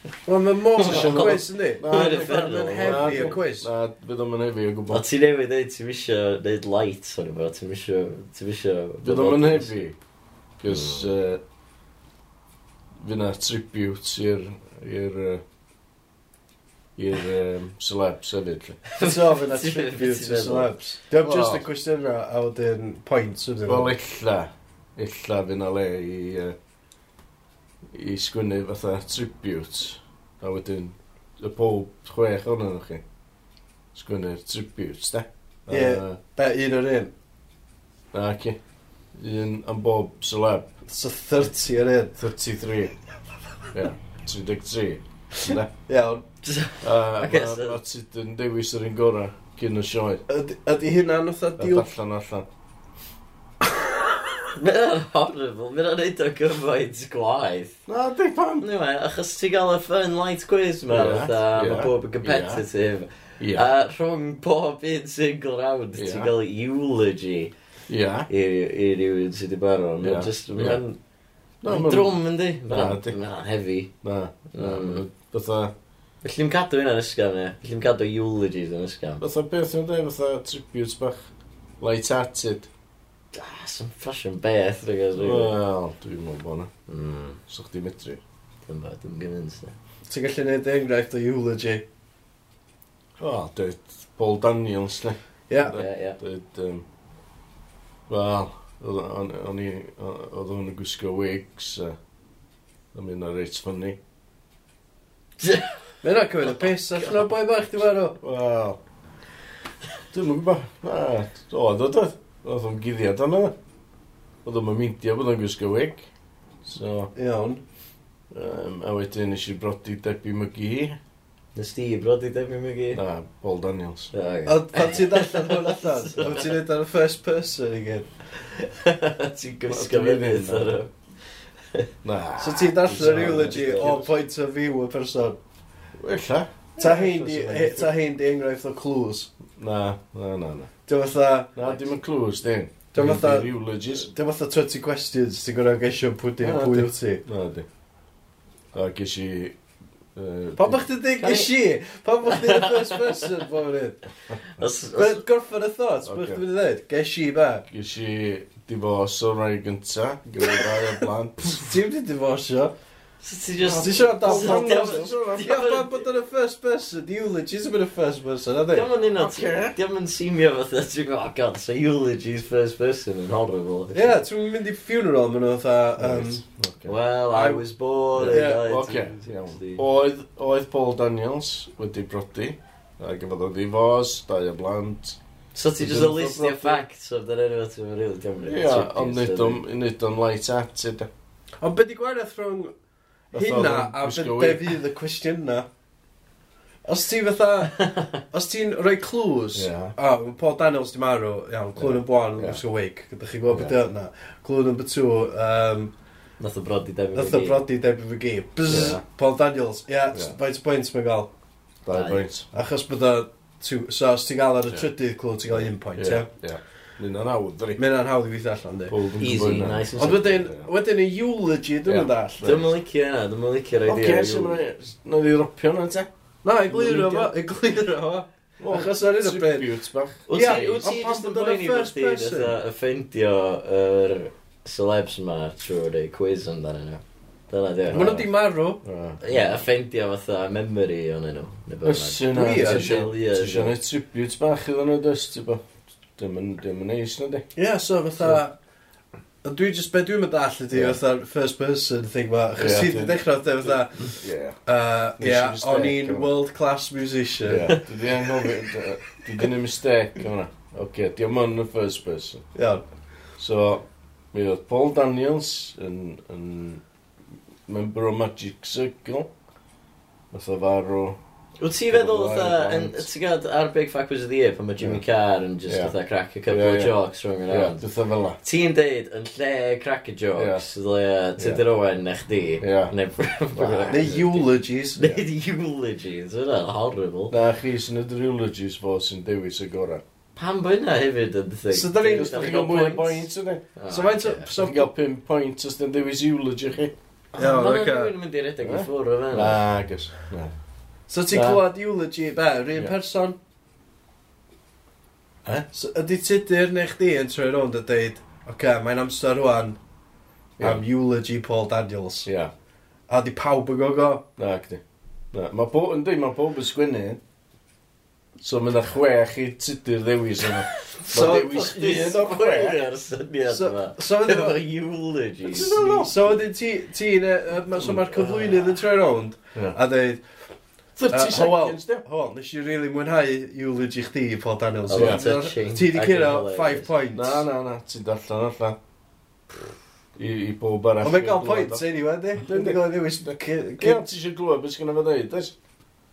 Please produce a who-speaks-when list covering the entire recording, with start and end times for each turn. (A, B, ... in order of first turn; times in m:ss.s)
0:00.2-0:03.7 A
0:00.8-0:05.0 B
0:00.8-0:03.4 C
0:04.9-0:09.7 C
0:09.0-0:11.4 B
0:10.7-0:11.0 C
0:13.0-0:15.4 B
0:17.0-0:18.9 B
0:19.0-0:23.9 A
0:19.0-0:21.0 C
0:21.2-0:21.6 B
0:23.6-0:26.6 B
0:27.9-0:33.1 B
0:33.9-0:36.2 B
0:35.7-0:37.1 A
0:38.1-0:40.8 B
0:40.9-0:42.2 A
0:42.2-0:43.0 B
0:43.7-0:45.7 B
0:45.9-0:46.2 A
0:46.4-0:47.8 C
0:46.8-0:50.2 B
0:50.3-0:51.9 A
0:51.6-0:52.4 B
0:54.5-0:57.8 C
0:57.9-0:58.6 B
0:58.6-1:07.5 C
1:00.9-1:02.6 B
1:03.4-1:03.7 B
1:06.0-1:06.3 B
1:07.9-1:08.3 B
1:08.3-1:11.0 C
1:10.0-1:10.8 B
1:11.6-1:13.2 B
1:11.6-1:13.9 C
1:14.0-1:15.7 B
1:14.5-1:15.1 C
1:16.2-1:19.2 C
1:19.2-1:22.7 B
1:23.3-1:25.5 C
1:25.2-1:26.7 B
1:26.9-1:27.4 C
1:27.4-1:28.2 B
1:28.6-1:29.8 C
1:30.1-1:31.8 A
1:33.2-1:36.8 B
1:35.5-1:35.8 A
1:35.7-1:36.2 C
1:38.1-1:42.0 B
1:42.9-1:44.0 B
1:45.4-1:45.9 C
1:46.0-1:48.2 A
1:48.2-1:48.8 B
1:50.1-1:53.5 B
1:54.4-1:57.1 B
1:57.2-1:57.6 A
1:58.3-2:01.0 B
2:01.5-2:03.0 C
2:02.9-2:04.1 B
2:04.1-2:06.4 C
2:04.4-2:08.3 A
2:08.4-2:11.9 C
2:09.7-2:10.8 B
2:12.0-2:14.1 B
2:12.4-2:15.4 A
2:13.0-2:14.0 C
2:15.9-2:17.9 B
2:16.8-2:19.3 A
2:19.5-2:20.7 B
2:20.9-2:21.5 A
2:21.5-2:24.1 B
2:22.9-2:27.2 A
2:26.4-2:27.7 B
2:28.7-2:31.0 B
2:30.6-2:34.1 A
2:31.2-2:31.5 C
2:32.2-2:33.2 C
2:34.6-2:35.2 C
2:35.0-2:37.6 A
2:36.0-2:36.4 B
2:37.7-2:41.7 B
2:41.5-2:42.7 A
2:43.2-2:45.9 C
2:43.6-2:49.0 A
2:43.7-2:45.5 B
2:48.7-2:54.2 C
2:49.2-2:49.7 B
2:53.9-2:56.4 A
2:56.0-2:57.0 B
2:56.8-2:59.8 C
2:57.3-2:59.0 A
2:58.1-3:05.2 B
3:05.5-3:09.6 C
3:05.8-3:06.8 B
3:08.4-3:11.1 B
3:11.6-3:12.7 A
3:13.3-3:15.7 A
3:13.3-3:14.7 B
3:16.8-3:25.9 A
3:19.5-3:19.9 B
3:21.8-3:22.6 B
3:26.4-3:27.6 C
3:27.1-3:31.3 A
3:28.6-3:29.0 B
3:31.8-3:32.5 B
3:31.9-3:32.2 C
3:32.5-3:36.3 A
3:35.5-3:37.8 B
3:37.8-3:42.6 A
3:38.9-3:40.7 B
3:39.2-3:40.3 C
3:41.9-3:44.6 C
3:43.8-3:46.1 B
3:46.4-3:52.5 A
3:46.7-3:47.3 B
3:48.6-3:50.9 B
3:50.3-3:58.3 C
3:57.9-3:58.8 A
3:58.8-3:59.5 B
3:59.2-4:03.8 C
4:01.8-4:07.5 B
4:02.3-4:03.0 A
4:07.6-4:08.6 A
4:09.4-4:18.0 A
4:12.6-4:14.6 B
4:15.2-4:16.3 B
4:17.4-4:22.7 B
4:22.5-4:23.3 A
4:23.4-4:26.8 B
4:27.7-4:29.3 B
4:30.3-4:31.2 B
4:31.6-4:37.8 C
4:31.9-4:33.1 B
4:35.7-4:35.9 B
4:36.5-4:36.9 B
4:37.4-4:38.4 B
4:38.4-4:47.3 C
4:40.3-4:40.6 B
4:41.4-4:41.6 B
4:42.6-4:42.9 B
4:43.5-4:44.1 B
4:43.9-4:45.0 A
4:47.3-4:50.0 B
4:50.3-4:53.2 C
4:51.7-4:53.0 A
4:52.1-4:53.8 B
4:53.7-4:54.5 C
4:53.8-4:54.9 A
4:54.6-4:56.9 B
4:57.3-4:59.6 C
4:57.4-4:58.1 A
4:58.6-5:00.5 B
5:01.1-5:03.4 A
5:01.3-5:01.6 C
5:05.7-5:09.8 A
5:10.6-5:10.8 B
5:10.6-5:12.3 A
5:12.2-5:12.5 B
5:13.1-5:14.2 A
5:14.4-5:17.2 B
5:18.4-5:22.1 B
5:20.9-5:25.8 C
5:21.0-5:22.8 A
5:23.4-5:24.6 A
5:25.5-5:26.2 B
5:25.7-5:37.4 A
5:28.1-5:28.6 C
5:29.5-5:29.8 B
5:31.0-5:32.0 B
5:34.9-5:36.9 C
5:34.9-5:35.3 B
5:37.1-5:38.8 B
5:40.2-5:41.8 B
5:41.0-5:44.0 A
5:42.4-5:45.5 B